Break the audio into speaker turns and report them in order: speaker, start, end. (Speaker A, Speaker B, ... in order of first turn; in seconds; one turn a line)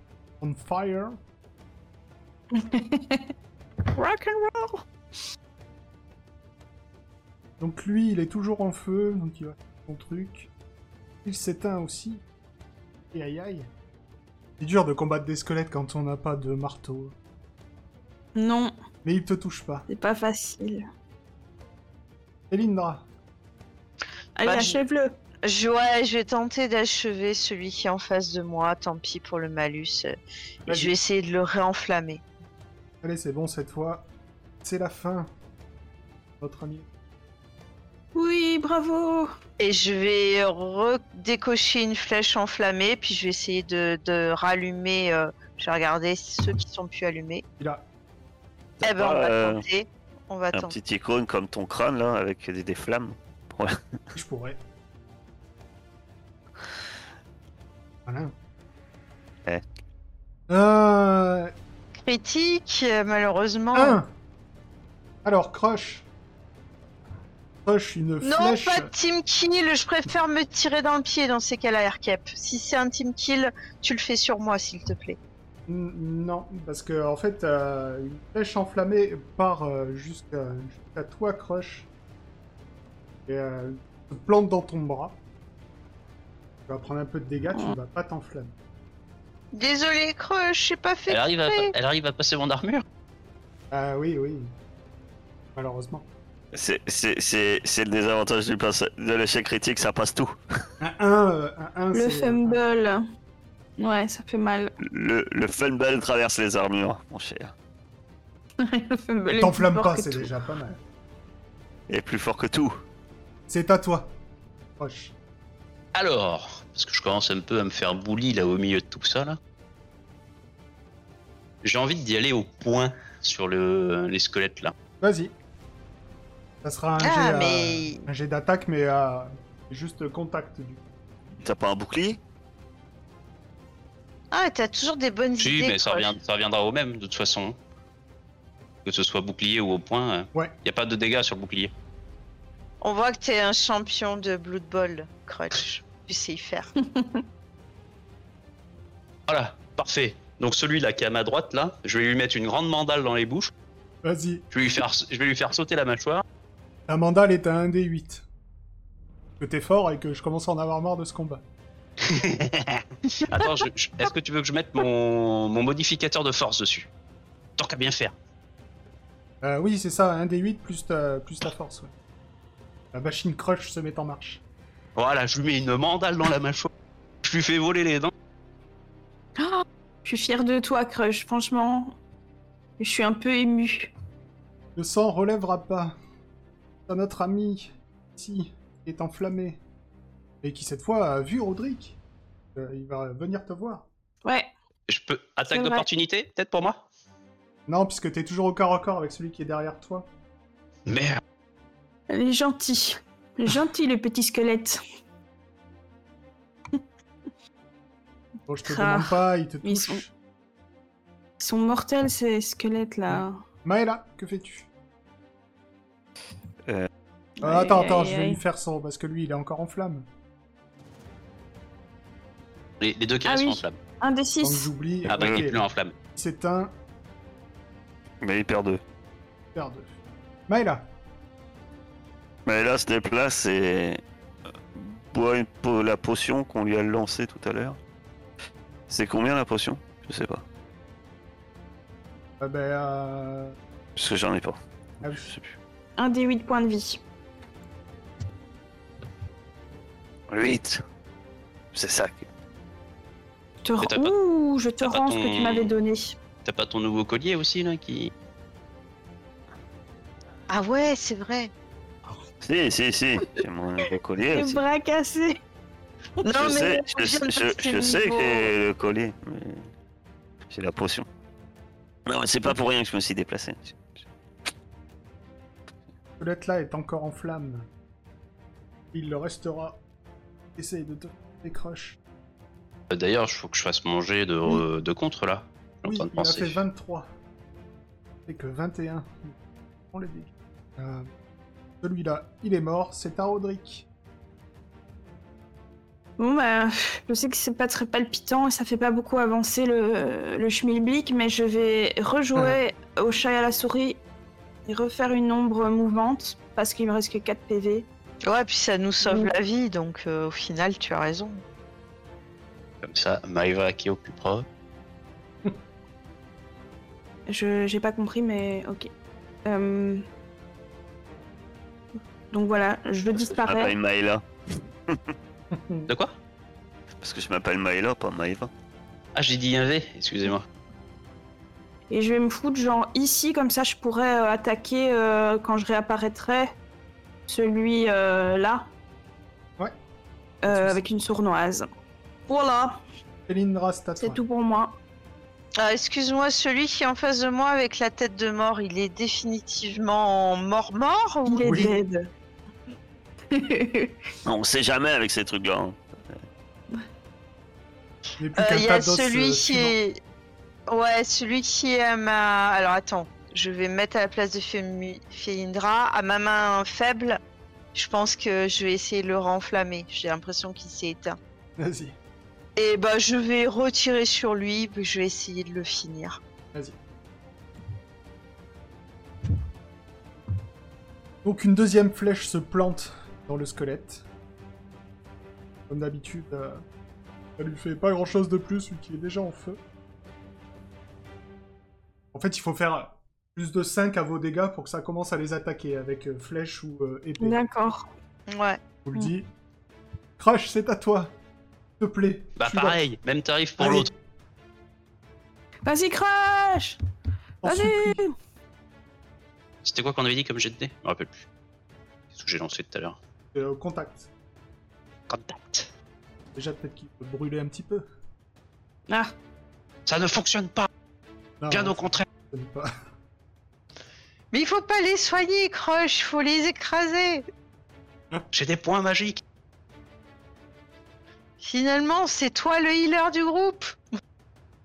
Speaker A: 0.4-1.2
Speaker B: 2.5-3.3
Speaker B: 3.9-4.8
Speaker A: 7.6-10.5
Speaker A: 11.2-12.2
Speaker A: 13.1-13.7
Speaker A: 14.6-17.1
Speaker B: 18.4-18.7
Speaker A: 19.0-19.9
Speaker B: 19.9-20.8
Speaker A: 22.5-23.1
Speaker B: 24.4-25.1
Speaker C: 24.5-24.7
Speaker C: 25.4-30.1
Speaker C: 30.6-32.2
Speaker A: 30.7-30.9
Speaker A: 33.0-34.1
Speaker A: 34.6-35.3
Speaker A: 36.4-36.9
Speaker B: 38.1-39.3
Speaker C: 39.6-47.4
Speaker A: 47.6-47.8
Speaker D: 48.8-49.6
Speaker C: 48.8-50.7
Speaker D: 50.5-53.8
Speaker A: 54.1-54.6
Speaker A: 58.0-58.3
Speaker A: 60.5-61.5
Speaker C: 62.0-64.0
Speaker A: 63.7-64.1
Speaker A: 65.2-66.1
Speaker A: 67.6-68.9
Speaker C: 68.2-75.2
Speaker A: 75.7-81.9
Speaker A: 83.2-85.2
Speaker A: 86.7-88.5
Speaker C: 89.5-91.7
Speaker E: 91.1-92.8
Speaker A: 93.7-94.5
Speaker A: 95.5-96.1
Speaker D: 96.5-100.4
Speaker A: 100.8-102.6
Speaker B: 101.9-103.0
Speaker B: 103.8-104.7
Speaker D: 104.8-107.5
Speaker B: 108.6-110.3
Speaker A: 109.3-110.8
Speaker D: 111.9-112.7
Speaker A: 113.5-114.1
Speaker A: 114.8-115.1
Speaker E: 115.9-119.4
Speaker E: 121.6-124.7
Speaker A: 125.0-125.3
Speaker A: 126.6-130.8
Speaker C: 127.0-128.0
Speaker D: 131.4-132.2
Speaker C: 134.3-136.2
Speaker E: 135.4-137.6
Speaker E: 138.8-141.7
Speaker C: 142.8-146.7
Speaker B: 146.8-147.2
Speaker E: 149.3-153.5
Speaker A: 154.0-154.4
Speaker E: 154.5-156.2
Speaker A: 156.9-158.2
Speaker A: 159.4-161.4
Speaker E: 162.0-166.9
Speaker E: 167.6-168.1
Speaker A: 169.4-171.9
Speaker A: 172.9-174.4
Speaker E: 174.9-176.7
Speaker E: 177.2-178.1
Speaker B: 179.4-181.9
Speaker B: 182.8-183.9
Speaker A: 184.8-185.9
Speaker A: 186.9-189.6
Speaker A: 190.4-192.0
Speaker A: 192.5-193.9
Speaker B: 194.2-194.5
Speaker E: 194.9-196.8
Speaker B: 195.5-195.8
Speaker A: 197.7-200.1
Speaker E: 200.9-201.2
Speaker B: 202.1-204.8
Speaker A: 208.5-210.1
Speaker B: 208.6-210.0
Speaker B: 211.4-213.4
Speaker A: 213.1-214.7
Speaker B: 217.4-218.4
Speaker A: 217.4-220.1
Speaker E: 222.8-223.8
Speaker B: 223.2-224.7
Speaker A: 224.4-226.7
Speaker E: 225.1-225.9
Speaker D: 225.1-225.4
Speaker D: 228.2-228.8
Speaker A: 229.5-229.9
Speaker A: 230.5-230.9
Speaker D: 232.4-234.0
Speaker D: 234.7-237.8
Speaker D: 238.9-240.4
Speaker A: 242.4-243.6
Speaker D: 243.9-245.6
Speaker A: 245.0-245.3
Speaker B: 246.0-247.0
Speaker D: 250.3-250.8
Speaker D: 251.7-252.3
Speaker B: 253.6-256.1
Speaker E: 253.8-254.1
Speaker E: 254.8-255.7
Speaker E: 256.4-258.1
Speaker C: 260.5-261.5
Speaker D: 262.4-264.6
Speaker B: 264.3-265.4
Speaker C: 266.2-268.5
Speaker D: 266.3-269.7
Speaker D: 270.5-271.1
Speaker D: 272.1-274.0
Speaker A: 276.2-277.7
Speaker A: 278.9-279.8
Speaker A: 280.6-282.0
Speaker E: 282.9-286.6
Speaker A: 285.8-287.1
Speaker A: 288.3-289.3
Speaker A: 289.9-291.1
Speaker A: 291.8-293.9
Speaker B: 296.2-304.0
Speaker B: 304.7-307.9
Speaker C: 308.2-311.4
Speaker B: 309.0-309.3
Speaker E: 312.8-314.4
Speaker B: 317.3-318.9
Speaker B: 319.4-320.0
Speaker B: 322.3-323.7
Speaker D: 323.1-324.2
Speaker A: 325.5-325.9
Speaker E: 325.9-326.1
Speaker D: 327.0-328.5
Speaker E: 329.1-330.4
Speaker B: 331.9-336.5
Speaker B: 337.3-338.7
Speaker B: 340.4-341.7
Speaker A: 340.4-340.8
Speaker B: 342.3-342.8
Speaker A: 343.3-344.2
Speaker B: 344.0-344.7
Speaker C: 345.6-351.6
Speaker B: 351.2-352.1
Speaker A: 351.4-351.7
Speaker B: 353.3-354.0
Speaker D: 354.2-356.1
Speaker A: 358.2-359.8
Speaker C: 358.4-360.0
Speaker C: 360.7-367.2
Speaker C: 367.7-371.2
Speaker A: 371.6-372.0
Speaker C: 372.6-376.2
Speaker A: 381.2-384.1
Speaker A: 385.7-386.6
Speaker A: 387.4-389.6
Speaker A: 392.1-397.4
Speaker B: 397.2-397.9
Speaker C: 398.3-398.6
Speaker A: 398.8-399.3
Speaker A: 400.2-401.1
Speaker A: 401.8-402.8
Speaker E: 402.4-403.9
Speaker A: 403.6-403.9
Speaker B: 405.6-406.8
Speaker A: 407.4-408.0
Speaker B: 407.4-408.1
Speaker E: 409.6-411.3
Speaker E: 412.1-413.0
Speaker A: 413.3-414.1
Speaker E: 415.1-415.7
Speaker A: 416.3-417.8
Speaker E: 419.9-420.7
Speaker A: 421.4-422.7
Speaker E: 421.5-422.0
Speaker C: 424.3-427.2
Speaker E: 428.3-429.2
Speaker C: 431.4-433.8